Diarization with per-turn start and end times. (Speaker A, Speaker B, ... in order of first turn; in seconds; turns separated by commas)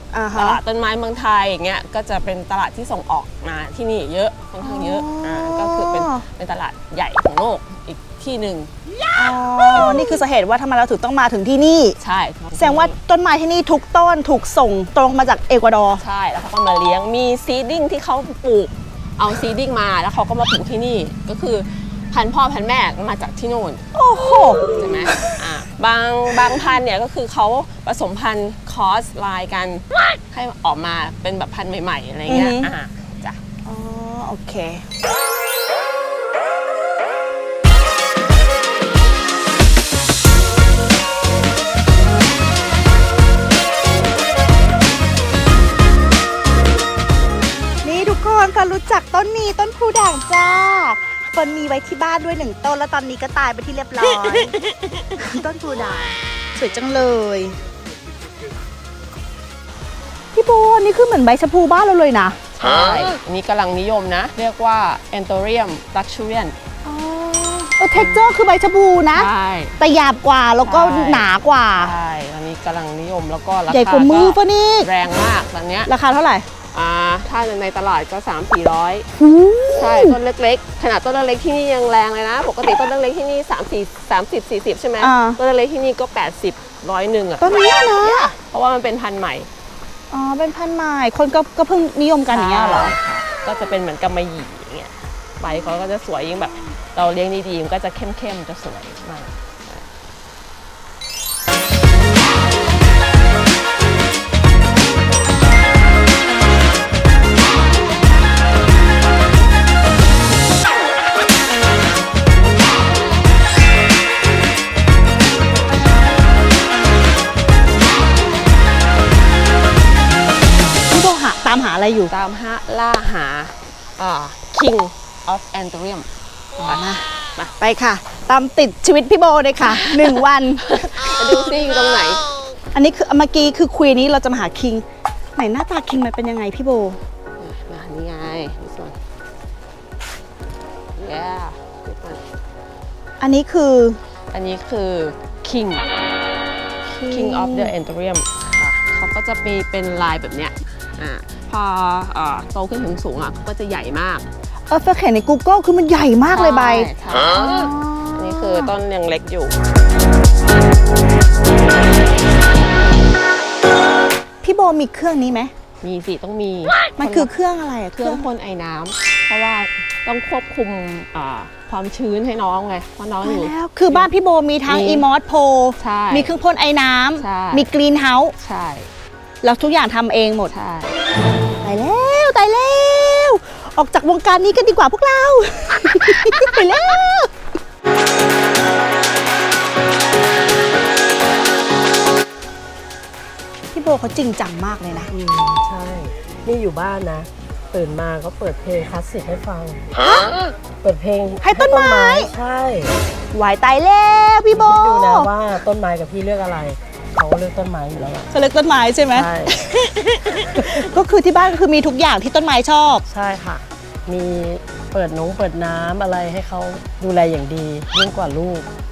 Speaker A: 0.1-0.6, Speaker B: 0.3-8.7, Speaker A: 4.6-6.2, Speaker A: 9.1-11.9, Speaker B: 9.7-10.2, Speaker B: 12.0-12.9, Speaker A: 12.6-16.0, Speaker B: 15.9-23.8, Speaker A: 23.9-25.4, Speaker B: 24.7-33.4, Speaker A: 32.3-32.7, Speaker A: 33.6-34.8, Speaker A: 47.8-54.5, Speaker A: 55.1-57.6, Speaker A: 60.3-62.4, Speaker B: 62.5-66.5, Speaker A: 66.8-71.9, Speaker B: 67.9-68.2, Speaker B: 69.1-69.8, Speaker B: 70.6-75.9, Speaker A: 73.7-74.9, Speaker A: 75.8-76.5, Speaker B: 76.7-79.0, Speaker A: 79.2-80.2, Speaker B: 79.7-89.5, Speaker A: 85.0-85.4, Speaker A: 87.4-88.3, Speaker A: 90.1-93.0, Speaker B: 92.3-99.9, Speaker A: 120.9-122.1, Speaker B: 122.1-126.1, Speaker A: 126.6-131.4, Speaker B: 129.6-132.2, Speaker A: 132.7-134.8, Speaker A: 135.3-137.0, Speaker B: 137.4-138.9, Speaker B: 140.9-142.2, Speaker A: 143.2-144.0, Speaker B: 144.3-145.9, Speaker A: 146.8-147.7, Speaker B: 147.1-154.3, Speaker A: 154.7-158.7, Speaker B: 156.3-159.6, Speaker A: 164.4-165.5, Speaker B: 165.8-167.3, Speaker A: 167.0-168.2, Speaker B: 167.9-174.1, Speaker A: 173.2-178.3, Speaker B: 174.6-175.1, Speaker B: 175.8-176.3, Speaker B: 177.2-177.7, Speaker B: 178.4-178.9, Speaker A: 179.4-180.5, Speaker B: 180.5-181.0, Speaker A: 181.6-187.3, Speaker A: 193.7-195.1, Speaker C: 195.1-199.9, Speaker C: 200.8-203.0, Speaker A: 201.4-202.3, Speaker A: 203.3-205.3, Speaker C: 204.5-208.3, Speaker A: 208.3-213.0, Speaker C: 209.1-209.6, Speaker C: 213.1-218.7